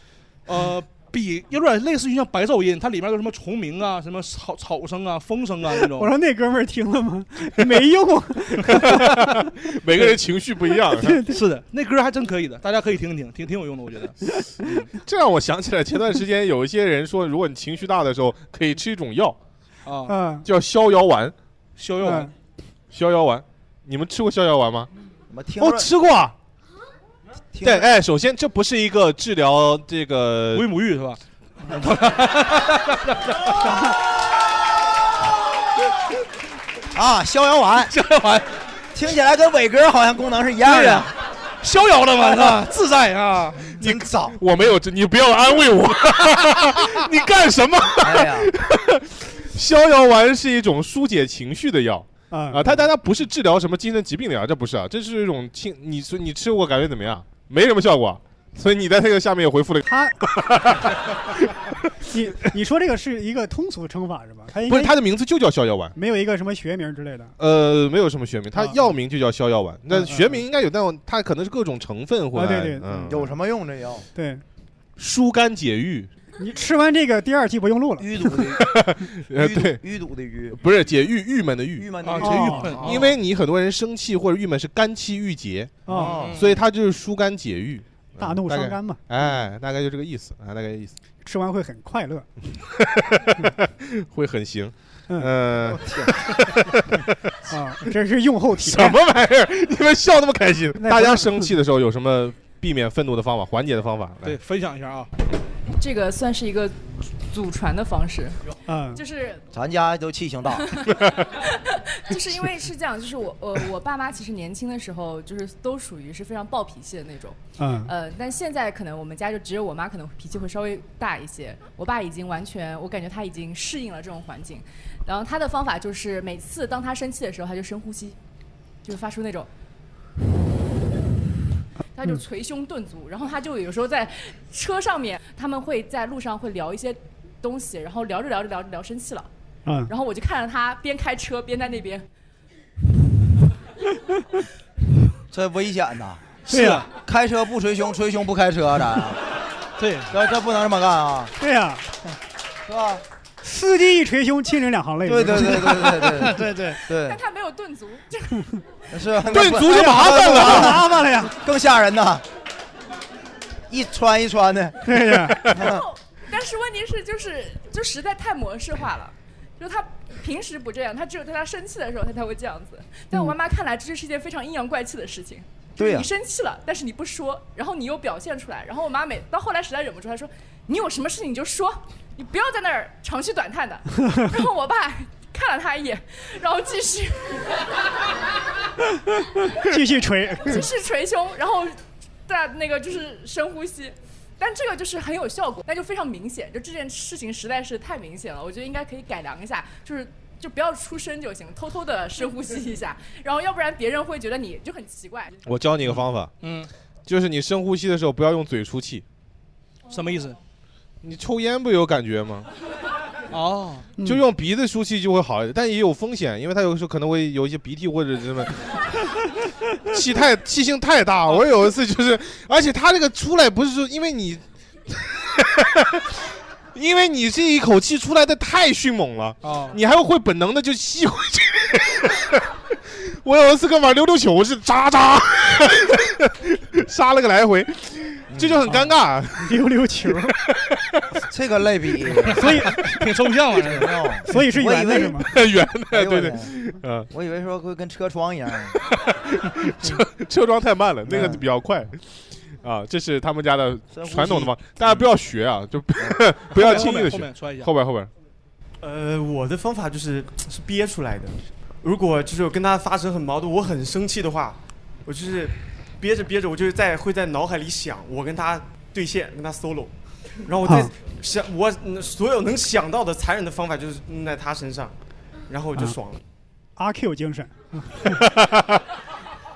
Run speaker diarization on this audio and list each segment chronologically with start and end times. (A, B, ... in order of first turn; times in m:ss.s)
0:00.5-0:06.1 A
0:05.8-0:09.3 B
0:08.6-0:11.2 C
0:10.9-0:11.4 B
0:11.3-0:14.8 A
0:15.0-0:19.4 C
0:19.8-0:20.1 A
0:20.1-0:20.4 B
0:20.4-0:21.3 C
0:21.8-0:22.3 A
0:22.0-0:22.3 B
0:22.9-0:24.9 C
0:25.3-0:25.9 D
0:25.6-0:26.3 C
0:27.5-0:27.9 D
0:27.6-0:30.7 C
0:30.5-0:33.6 A
0:36.9-0:37.9 D
0:37.9-0:38.5 A
0:38.9-0:41.1 D
0:40.6-0:43.7 A
0:42.3-0:42.6 D
0:43.8-1:01.7 C
0:43.8-0:44.4 D
0:48.0-0:48.5 D
0:52.3-0:52.8 B
0:59.8-1:00.2 B
1:02.1-1:05.0 B
1:04.6-1:05.9 C
1:06.0-1:07.3 B
1:07.4-1:13.3 C
1:09.9-1:10.4 B
1:12.3-1:13.2 B
1:13.1-1:14.1 D
1:14.1-1:14.4 B
1:15.0-1:16.1 C
1:16.4-1:18.3 B
1:18.0-1:18.8 D
1:18.5-1:19.8 C
1:19.3-1:20.6 D
1:20.5-1:21.9 C
1:21.8-1:23.1 D
1:22.0-1:23.0 A
1:22.2-1:22.7 B
1:22.8-1:25.8 C
1:25.8-1:26.2 B
1:25.9-1:26.4 D
1:25.9-1:26.5 A
1:26.3-1:30.9 C
1:28.2-1:29.0 B
1:31.2-1:32.3 B
1:32.6-1:37.3 C
1:35.7-1:36.1 D
1:37.5-1:39.0 B
1:38.6-1:44.4 C
1:40.8-1:41.5 B
1:44.2-1:45.1 A
1:45.7-1:48.4 E
1:48.7-1:49.0 B
1:48.9-1:49.4 E
1:49.5-1:50.7 D
1:50.6-2:08.2 E
1:57.6-1:57.9 B
2:08.8-2:09.5 E
2:11.9-2:19.3 E
2:19.6-2:19.9 B
2:19.9-2:22.0 E
2:25.3-2:26.2 D
2:26.5-2:26.9 A
2:26.5-2:26.9 B
2:27.0-2:29.2 D
2:29.8-2:30.1 A
2:30.1-2:31.3 D
2:31.4-2:31.8 B
2:32.6-2:33.0 D
2:33.4-2:36.0 B
2:35.0-2:37.2 D
2:36.2-2:36.8 A
2:36.9-2:38.6 E
2:38.9-2:42.2 D
2:39.3-2:40.9 C
2:39.4-2:41.4 B
2:43.7-2:45.8 D
2:44.8-2:45.6 B
2:45.5-3:07.7 E
2:55.8-2:56.1 D
3:09.3-3:10.6 B
3:10.4-3:25.4 E
3:25.4-3:26.3 C
3:25.9-3:26.7 A
3:27.0-3:29.0 C
3:29.9-3:30.4 A
3:31.0-3:32.5 C
3:33.3-3:33.9 A
3:34.0-3:38.5 C
3:39.8-3:46.2 C
3:46.7-3:59.6 C
3:49.4-3:49.8 A
3:58.3-3:58.6 D
3:58.6-4:00.4 B
4:00.3-4:01.0 C
4:01.2-4:02.5 D
4:02.4-4:03.0 B
4:02.8-4:04.1 A
4:03.5-4:05.4 D
4:04.3-4:05.3 B
4:05.1-4:07.1 C
4:05.9-4:06.5 D
4:07.1-4:08.8 D
4:08.9-4:18.1 C
4:11.1-4:11.4 D
4:13.9-4:14.6 D
4:16.5-4:17.7 A
4:18.8-4:29.9 F
4:30.4-4:34.9 F
4:30.6-4:30.9 B
4:35.5-4:36.2 F
4:36.8-4:38.2 B
4:38.1-4:38.8 C